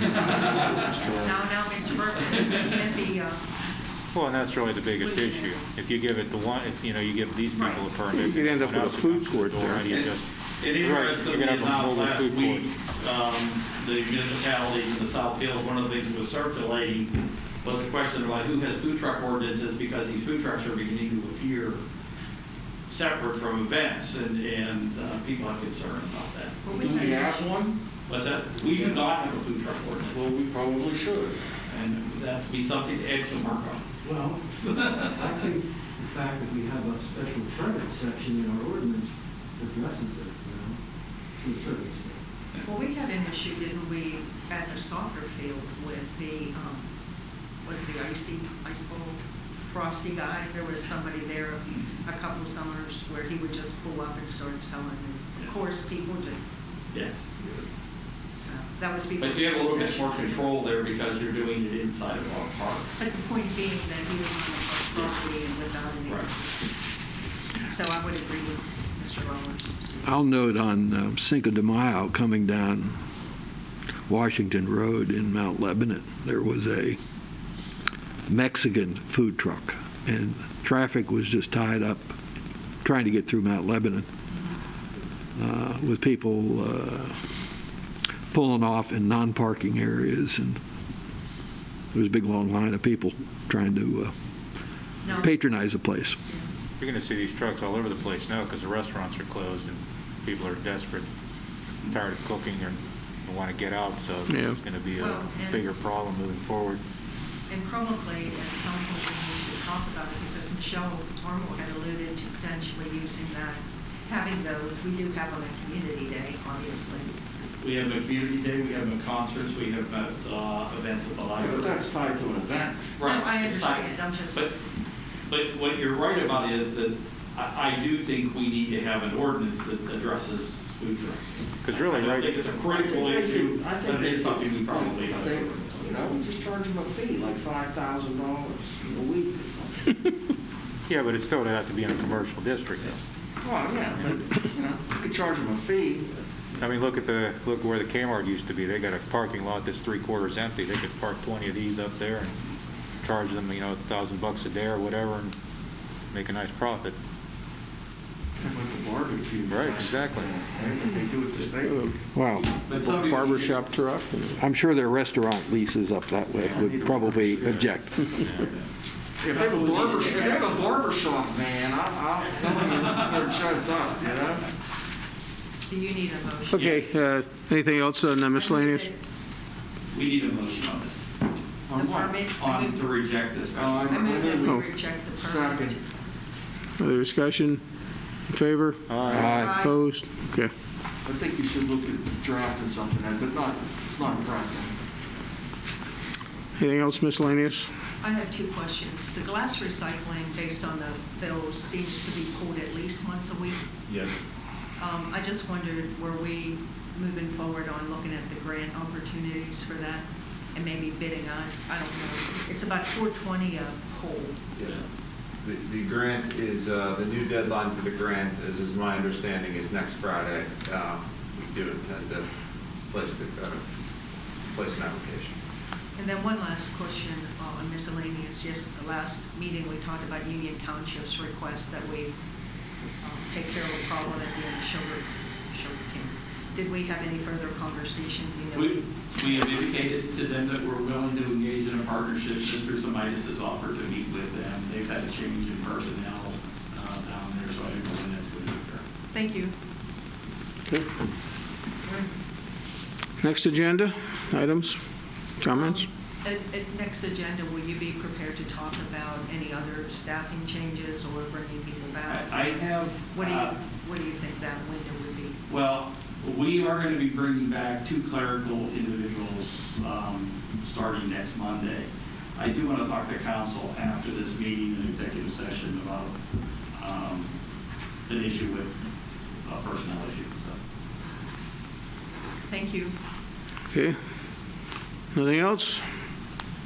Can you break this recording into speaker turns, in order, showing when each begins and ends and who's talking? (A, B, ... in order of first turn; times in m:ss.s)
0:00.2-0:00.7 A
0:01.1-0:03.4 B
0:04.1-0:12.7 C
0:05.0-0:05.6 B
0:08.1-0:09.8 D
0:09.9-0:21.8 A
0:22.9-0:27.0 A
0:26.6-0:27.5 B
0:26.7-0:27.8 E
0:28.1-0:30.2 A
0:28.6-0:29.1 E
0:30.1-0:31.4 E
0:31.6-0:33.9 A
0:34.0-0:39.0 F
0:34.6-0:35.3 A
0:39.6-0:40.8 F
0:41.5-0:42.1 F
0:42.6-0:46.9 B
0:47.6-0:49.2 B
0:49.7-0:56.5 B
0:56.9-0:57.6 A
0:58.4-1:00.5 B
0:59.2-1:02.9 A
1:03.0-1:06.7 B
1:06.0-1:06.3 A
1:07.6-1:10.2 B
1:10.0-1:13.0 G
1:14.1-1:17.0 G
1:18.3-1:22.2 G
1:22.8-1:24.1 G
1:25.4-1:27.2 G
1:28.3-1:30.6 G
1:31.9-1:34.1 G
1:35.0-1:35.3 B
1:35.1-1:36.2 G
1:36.8-1:41.1 C
1:41.8-1:46.8 C
1:44.3-1:44.6 D
1:45.0-1:45.6 B
1:47.5-1:57.1 B
1:57.6-2:01.8 A
2:01.4-2:02.9 E
2:03.0-2:04.5 A
2:03.0-2:04.5 B
2:05.3-2:16.0 A
2:11.6-2:12.3 C
2:12.6-2:20.0 E
2:20.9-2:22.9 C
2:23.4-2:26.0 E
2:26.6-2:32.4 C
2:33.0-2:35.3 C
2:36.1-2:36.9 C
2:38.4-2:42.0 E
2:39.5-2:40.3 C
2:42.1-2:42.8 G
2:42.4-2:43.8 A
2:42.9-2:44.3 D
2:44.3-2:48.2 G
2:46.3-2:47.7 E
2:48.2-2:48.5 C
2:49.2-2:54.5 E
2:49.2-2:50.7 A
2:55.7-2:56.8 B
2:56.5-2:58.9 D
2:56.6-2:56.9 A
2:58.3-2:59.0 B
2:59.9-3:01.0 A
3:01.7-3:02.1 E
3:01.7-3:02.8 B
3:02.4-3:04.0 A
3:03.5-3:04.6 E
3:03.8-3:05.8 B
3:04.4-3:04.7 D
3:05.1-3:05.8 E
3:06.8-3:07.6 D
3:08.3-3:10.5 D
3:08.9-3:09.4 C
3:09.2-3:09.8 B
3:11.0-3:14.7 E
3:16.6-3:17.7 D
3:18.0-3:23.6 B
3:24.8-3:34.4 B
3:35.4-3:42.2 H
3:42.9-3:43.6 H
3:44.5-3:45.4 H
3:46.0-3:52.1 B
3:53.0-3:59.6 B
3:58.5-4:08.8 A
4:09.1-4:09.5 B
4:11.8-4:12.1 B
4:13.2-4:14.8 D
4:15.4-4:15.9 D
4:15.5-4:25.4 B
4:22.1-4:23.5 A
4:25.5-4:36.2 A
4:36.7-4:37.3 A
4:38.1-4:38.8 A
4:39.4-4:40.6 A
4:42.5-4:42.9 B
4:43.7-4:44.0 D
4:45.1-4:45.8 D